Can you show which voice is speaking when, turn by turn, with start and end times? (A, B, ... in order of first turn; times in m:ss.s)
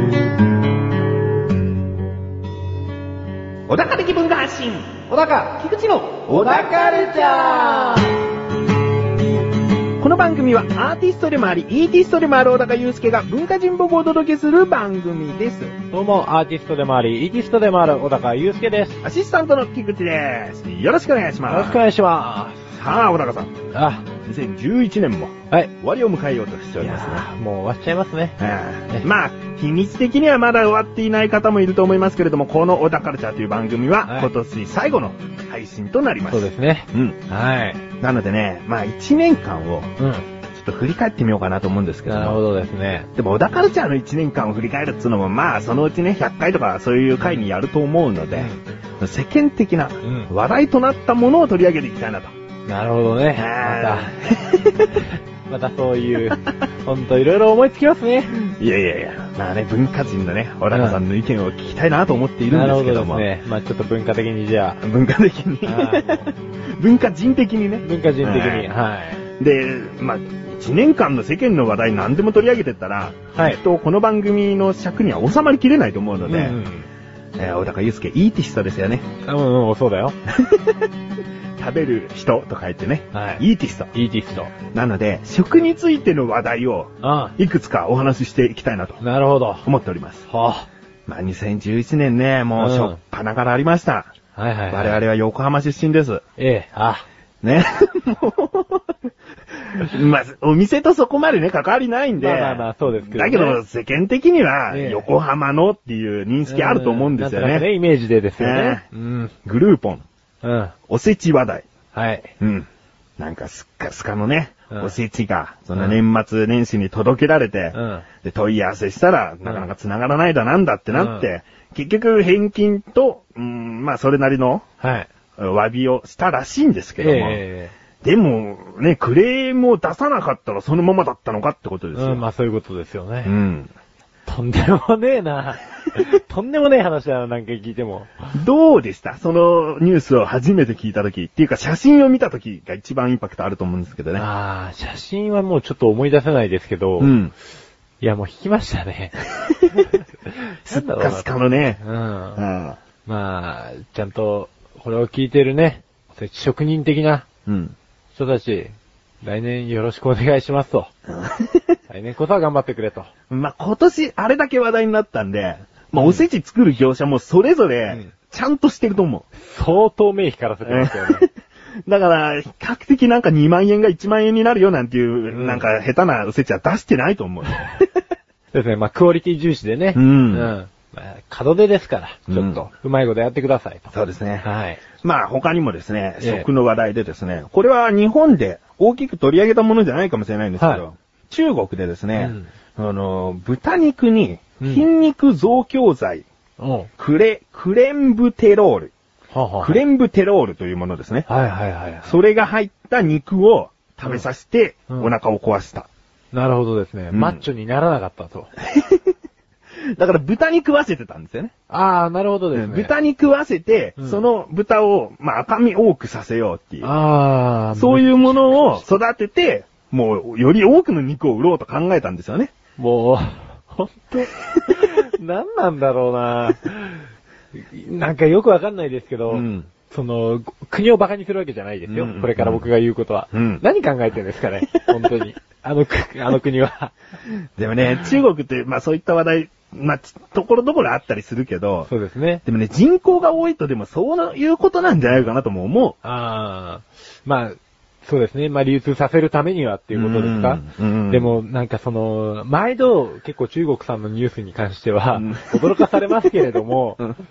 0:03.7-0:06.8 A
0:05.1-0:05.5 B
0:06.3-0:08.2 B
0:10.0-0:15.8 A
0:15.9-0:19.0 B
0:19.0-0:21.8 A
0:21.5-0:22.7 B
0:22.8-0:23.5 A
0:23.7-0:24.0 B
0:24.2-0:27.3 A
0:26.8-0:28.4 B
0:28.4-0:37.2 A
0:36.3-0:37.8 B
0:38.0-0:39.9 A
0:40.0-0:40.3 B
0:40.5-0:42.4 A
0:42.0-0:43.1 B
0:43.1-0:52.3 A
0:48.3-0:48.6 B
0:50.0-0:50.3 B
0:52.7-0:54.1 B
0:53.3-0:55.0 A
0:55.0-0:58.3 B
0:58.3-1:03.2 A
1:00.7-1:01.0 B
1:02.5-1:04.8 B
1:04.8-1:08.7 A
1:05.6-1:06.3 B
1:07.8-1:09.2 B
1:09.4-1:16.6 A
1:13.3-1:13.6 B
1:16.2-1:16.9 B
1:17.4-1:19.0 A
1:19.2-1:20.2 B
1:20.3-1:20.9 A
1:21.6-1:23.9 A
1:23.1-1:23.4 B
1:23.9-1:24.5 B
1:24.7-1:29.0 A
1:27.0-1:27.4 B
1:29.0-1:29.6 B
1:29.6-1:30.2 A
1:30.3-1:30.7 B
1:31.1-1:34.1 A
1:32.6-1:33.0 B
1:34.3-1:35.0 B
1:34.7-1:36.2 A
1:36.4-1:37.1 B
1:37.4-1:39.0 A
1:39.6-1:47.7 A
1:42.2-1:43.6 B
1:44.7-1:45.1 B
1:46.5-1:49.3 B
1:48.4-1:48.8 A
1:49.4-1:50.0 A
1:50.4-1:50.8 B
1:50.9-1:51.7 A
1:51.9-1:52.3 B
1:52.4-2:04.7 A
1:57.7-1:58.1 B
2:00.9-2:01.3 B
2:04.8-2:05.1 B
2:05.4-2:07.4 A
2:07.0-2:07.7 B
2:08.0-2:12.2 A
2:11.9-2:13.3 B
2:13.2-2:13.7 A
2:14.2-2:18.3 B
2:18.4-2:24.3 A
2:24.2-2:27.1 B
2:27.0-2:27.3 A
2:28.0-2:31.2 B
2:29.4-2:29.8 A
2:30.6-2:31.8 A
2:31.8-2:32.4 B
2:32.4-2:32.8 A
2:33.1-2:37.2 B
2:37.4-2:37.8 A
2:38.1-2:40.9 B
2:41.1-2:41.8 A
2:41.9-2:43.1 B
2:43.3-2:49.2 A
2:46.0-2:46.2 B
2:49.4-2:51.2 B
2:50.6-2:51.3 A
2:51.8-2:57.9 A
2:55.3-2:55.6 B
2:58.5-3:04.8 B
2:59.9-3:00.5 A
3:02.3-3:02.6 A
3:03.9-3:04.5 A
3:05.0-3:16.2 A
3:06.2-3:06.5 B
3:12.2-3:12.5 B
3:14.6-3:14.8 B
3:16.6-3:16.9 B
3:17.0-3:18.9 A
3:19.3-3:19.8 B
3:19.6-3:21.3 A
3:21.3-3:22.1 B
3:22.1-3:25.9 A
3:26.3-3:28.5 B
3:27.1-3:27.4 A
3:28.6-3:29.1 A
3:29.9-3:31.5 A
3:31.7-3:32.9 B
3:32.5-3:36.9 A
3:36.8-3:38.8 B
3:37.8-3:42.5 A
3:42.8-3:56.9 B
3:49.3-3:49.7 A
3:51.9-3:52.7 A
3:53.3-3:53.6 A
3:57.6-4:01.9 A
4:01.9-4:02.4 B
4:02.4-4:06.0 A
4:06.0-4:17.0 B
4:09.9-4:11.3 A
4:15.2-4:16.0 A